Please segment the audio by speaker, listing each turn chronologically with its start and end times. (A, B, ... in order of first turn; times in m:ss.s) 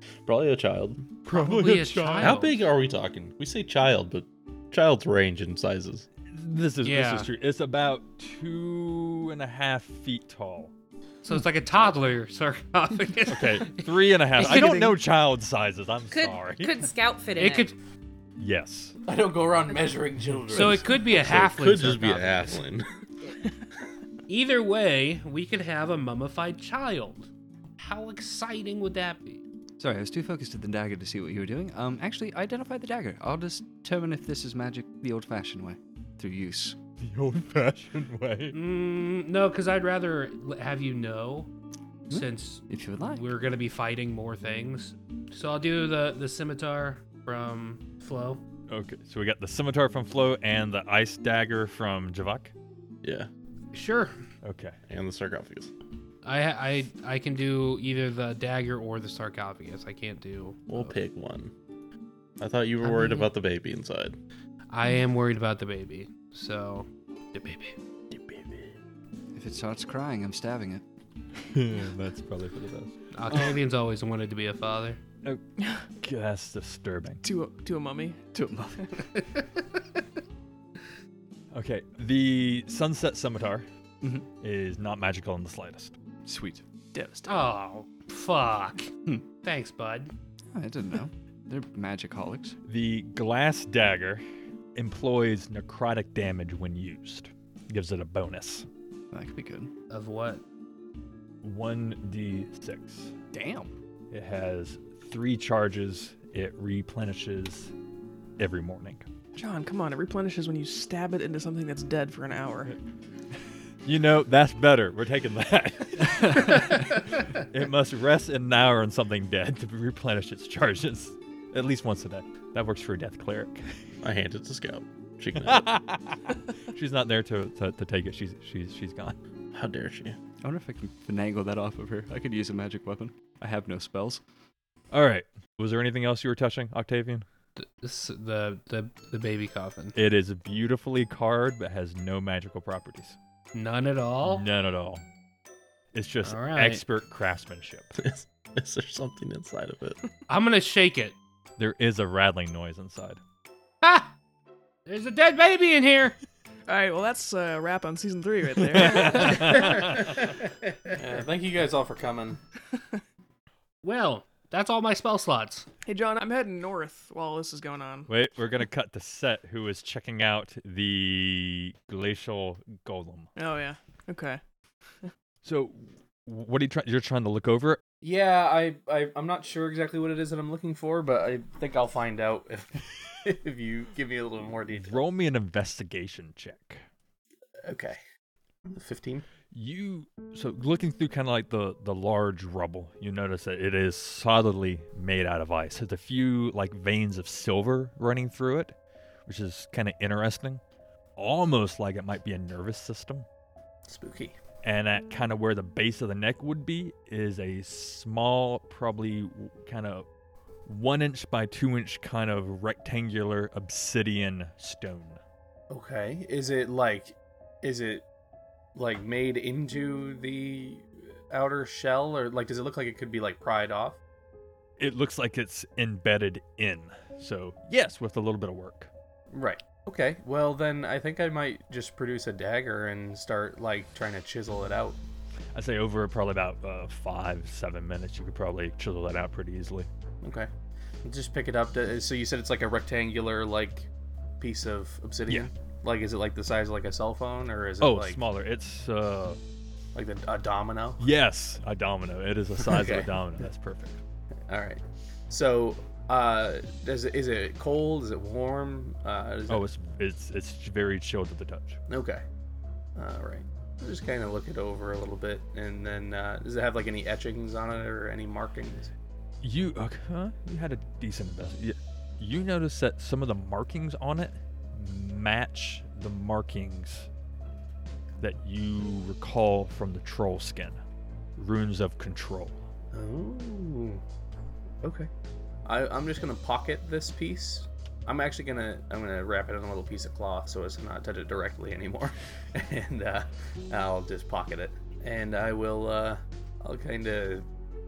0:00.2-0:01.2 A
0:01.2-0:02.5 B
0:01.3-0:02.4 C
0:02.2-0:06.1 A
0:06.3-0:10.7 B
0:06.8-0:07.3 C
0:11.2-0:14.8 C
0:13.3-0:16.8 B
0:14.4-0:14.8 D
0:16.1-0:17.7 D
0:17.4-0:17.7 C
0:18.4-0:19.0 B
0:19.1-0:21.0 E
0:20.5-0:22.6 C
0:20.8-0:22.9 A
0:24.3-0:29.4 C
0:29.8-0:36.8 F
0:37.0-0:38.6 B
0:38.5-0:41.5 C
0:42.1-0:43.2 F
0:42.1-0:48.4 C
0:48.7-0:52.5 B
0:53.0-0:53.3 A
0:53.7-0:54.1 C
0:54.4-0:54.8 B
0:54.9-0:55.7 A
0:56.2-1:00.9 C
1:00.7-1:01.5 A
1:02.4-1:04.2 A
1:02.8-1:03.3 C
1:04.7-1:07.8 C
1:08.1-1:08.7 A
1:09.3-1:10.8 F
1:11.4-1:13.6 B
1:13.1-1:15.0 C
1:15.6-1:15.8 G
1:16.0-1:17.2 B
1:17.2-1:19.0 G
1:18.4-1:19.1 F
1:21.5-1:23.6 B
1:24.0-1:24.3 F
1:24.4-1:26.0 B
1:26.2-1:26.6 F
1:26.9-1:27.5 G
1:27.3-1:28.9 C
1:29.4-1:30.1 C
1:30.5-1:32.6 F
1:32.6-1:34.2 B
1:34.7-1:38.7 B
1:39.1-1:39.7 F
1:39.9-1:40.4 C
1:41.4-1:43.1 B
1:43.3-1:43.7 F
1:44.1-1:47.7 B
1:48.4-1:49.1 B
1:49.4-1:52.7 G
1:53.8-2:03.7 B
2:04.0-2:05.7 A
2:05.4-2:09.2 B
2:09.5-2:10.2 A
2:10.4-2:14.2 F
2:14.9-2:17.2 B
2:17.6-2:20.0 C
2:19.9-2:23.2 B
2:23.5-2:24.4 C
2:24.2-2:25.0 B
2:25.9-2:27.9 B
2:26.2-2:26.8 C
2:28.0-2:30.0 A
2:30.3-2:31.2 C
2:31.6-2:33.2 B
2:33.8-2:34.1 C
2:34.8-2:36.2 C
2:36.7-2:39.8 G
2:38.8-2:39.7 B
2:40.9-2:42.4 E
2:43.8-2:45.7 C
2:45.8-2:48.1 G
2:48.1-2:53.3 B
2:53.3-2:54.4 G
2:55.4-2:57.8 B
2:58.0-3:05.0 E
3:04.7-3:06.8 B
3:07.6-3:08.0 E
3:08.7-3:09.2 E
3:09.5-3:18.7 B
3:19.2-3:20.6 B
3:21.2-3:23.3 B
3:23.9-3:24.4 E
3:24.6-3:30.1 B
3:30.6-3:35.2 B
3:35.7-3:38.0 E
3:38.7-3:44.0 E
3:44.8-3:48.9 B
3:49.3-3:55.0 E
3:55.5-3:59.9 B
4:00.2-4:00.5 E
4:01.0-4:03.9 E
4:04.4-4:08.2 E
4:07.8-4:09.4 B
4:09.9-4:11.0 E
4:11.0-4:14.0 B
4:12.6-4:13.1 E
4:14.5-4:19.6 E
4:19.5-4:21.8 B
4:21.9-4:22.2 E
4:23.0-4:28.9 E
4:29.4-4:37.1 B
4:38.2-4:40.8 B
4:41.4-4:42.6 B
4:42.9-4:44.0 E
4:44.8-4:45.1 E
4:45.6-4:57.4 E